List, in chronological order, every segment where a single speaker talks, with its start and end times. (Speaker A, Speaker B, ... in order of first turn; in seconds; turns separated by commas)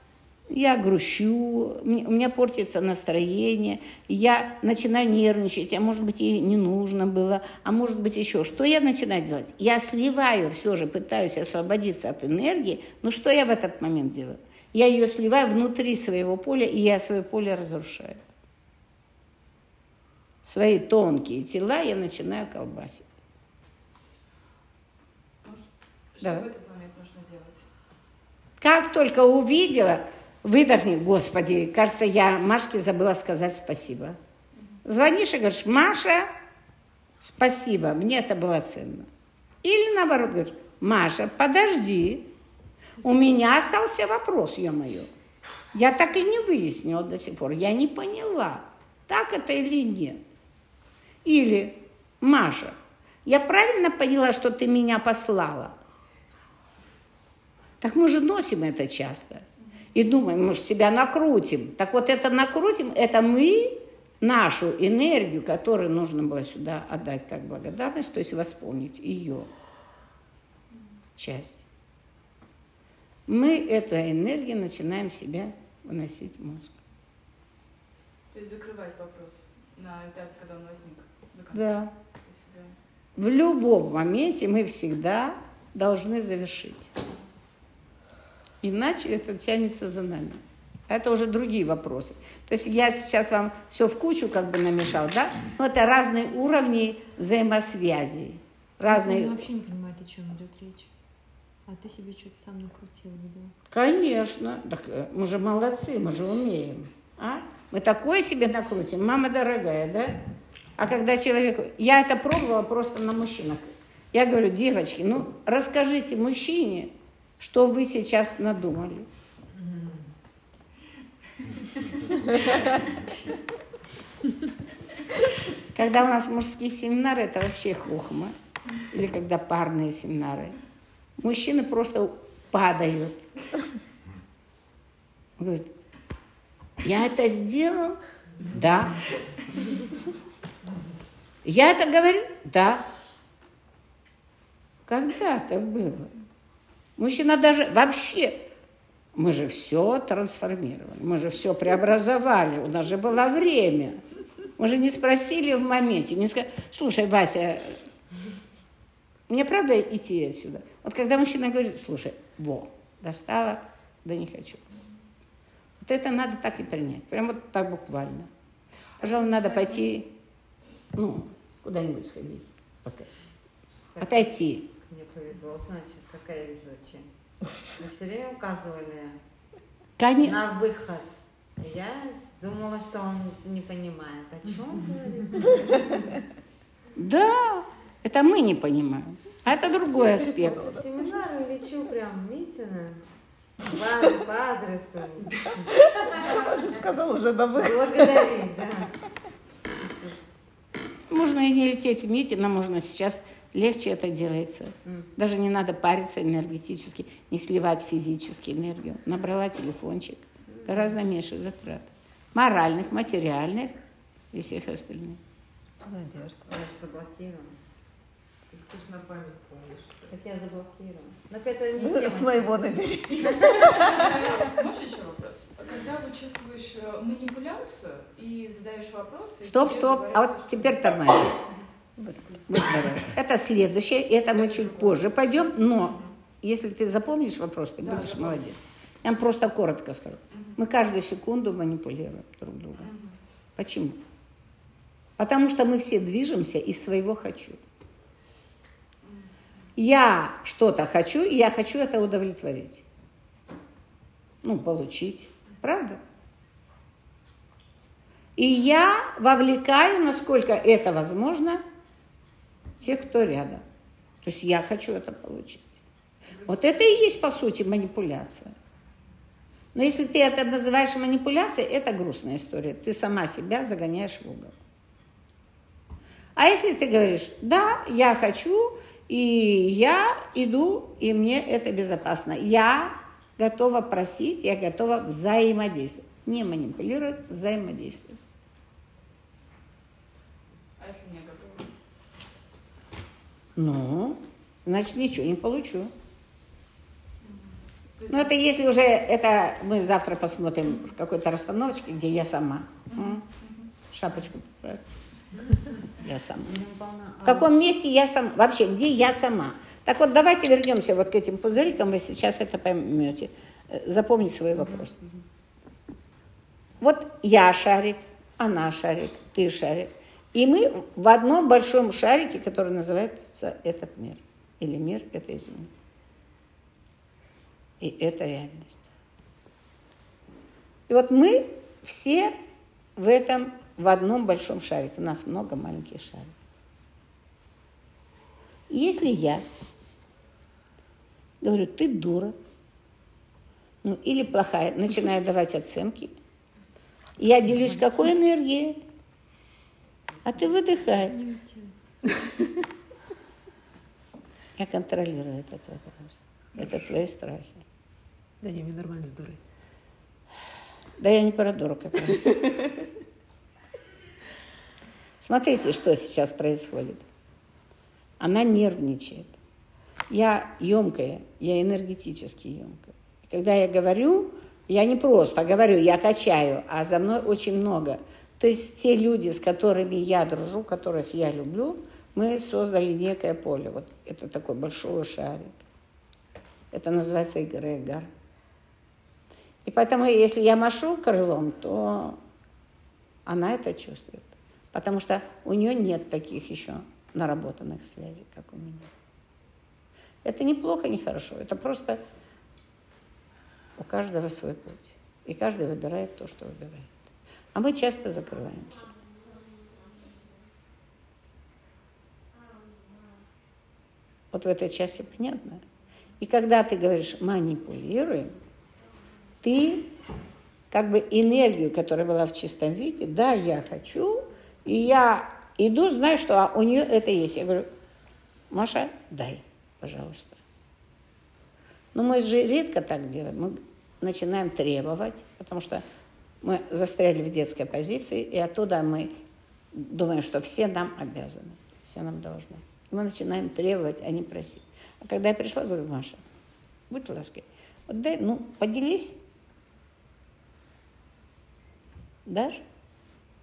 Speaker A: 0.5-18.2, Speaker A: 20.4-23.0, Speaker B: 26.1-27.7, Speaker A: 26.2-26.5, Speaker A: 28.6-34.2, Speaker A: 34.8-36.3, Speaker A: 37.2-39.1, Speaker A: 39.6-42.3, Speaker A: 43.0-45.1, Speaker A: 45.7-50.2, Speaker A: 51.2-52.7, Speaker A: 53.2-55.8, Speaker A: 57.8-69.5, Speaker A: 71.2-71.6, Speaker A: 73.3-76.8, Speaker B: 78.3-82.7, Speaker A: 81.5-81.9, Speaker A: 83.2-86.9, Speaker A: 88.6-99.5, Speaker C: 98.8-100.9, Speaker C: 101.7-103.5, Speaker A: 103.7-110.2, Speaker A: 110.8-119.1, Speaker A: 125.7-130.6, Speaker A: 131.2-133.3, Speaker A: 135.4-135.7, Speaker A: 136.8-139.0, Speaker A: 141.4-142.8, Speaker A: 144.9-146.1, Speaker A: 147.0-148.4, Speaker A: 149.1-154.0, Speaker A: 154.6-157.8, Speaker A: 159.3-164.6, Speaker A: 165.8-168.3, Speaker A: 169.0-170.1, Speaker A: 170.9-173.1, Speaker D: 173.9-177.1, Speaker A: 174.0-174.7, Speaker D: 177.6-179.2, Speaker A: 180.0-180.4, Speaker D: 180.2-186.0, Speaker A: 186.9-190.7, Speaker D: 190.0-196.4, Speaker E: 195.9-198.3, Speaker D: 197.5-198.9, Speaker D: 199.8-200.2, Speaker A: 201.1-213.8, Speaker A: 214.3-215.2, Speaker E: 215.8-216.4, Speaker D: 216.4-217.6, Speaker D: 218.5-222.5, Speaker E: 221.8-224.0, Speaker D: 223.2-224.1, Speaker B: 223.9-230.9, Speaker A: 229.4-231.4, Speaker A: 232.1-242.9, Speaker B: 234.6-235.1, Speaker B: 237.8-238.4, Speaker B: 242.8-243.1, Speaker A: 243.6-244.0, Speaker A: 245.2-247.6, Speaker A: 249.8-252.8, Speaker A: 254.4-256.0, Speaker A: 258.4-261.6, Speaker A: 262.8-263.6, Speaker A: 264.2-265.7, Speaker A: 266.4-268.5, Speaker A: 269.7-274.5, Speaker A: 276.4-288.2, Speaker B: 290.8-291.7, Speaker A: 293.6-295.9, Speaker B: 297.2-298.3, Speaker A: 298.1-303.2, Speaker B: 302.9-303.6, Speaker A: 303.9-304.8, Speaker A: 306.0-306.6, Speaker D: 306.4-307.5, Speaker A: 307.2-315.1, Speaker A: 316.8-325.7, Speaker A: 327.8-328.9, Speaker A: 330.9-332.3, Speaker A: 332.9-336.3, Speaker A: 338.7-339.4, Speaker A: 341.4-342.3, Speaker A: 343.8-346.1, Speaker A: 347.2-348.8, Speaker A: 350.2-351.2, Speaker C: 351.0-351.7, Speaker A: 354.6-357.6, Speaker E: 358.4-359.4, Speaker A: 361.0-362.4, Speaker A: 365.2-367.0, Speaker A: 368.2-369.3, Speaker A: 370.1-385.6, Speaker A: 386.7-388.1, Speaker A: 389.6-392.2, Speaker A: 393.2-398.9, Speaker A: 400.2-402.0, Speaker A: 403.8-408.9, Speaker A: 414.3-415.6, Speaker A: 416.2-418.3, Speaker A: 419.4-419.9, Speaker A: 420.7-427.7, Speaker A: 428.5-430.4, Speaker A: 431.9-435.8, Speaker A: 436.4-439.1, Speaker A: 439.7-446.2, Speaker A: 446.9-449.1, Speaker A: 452.2-452.6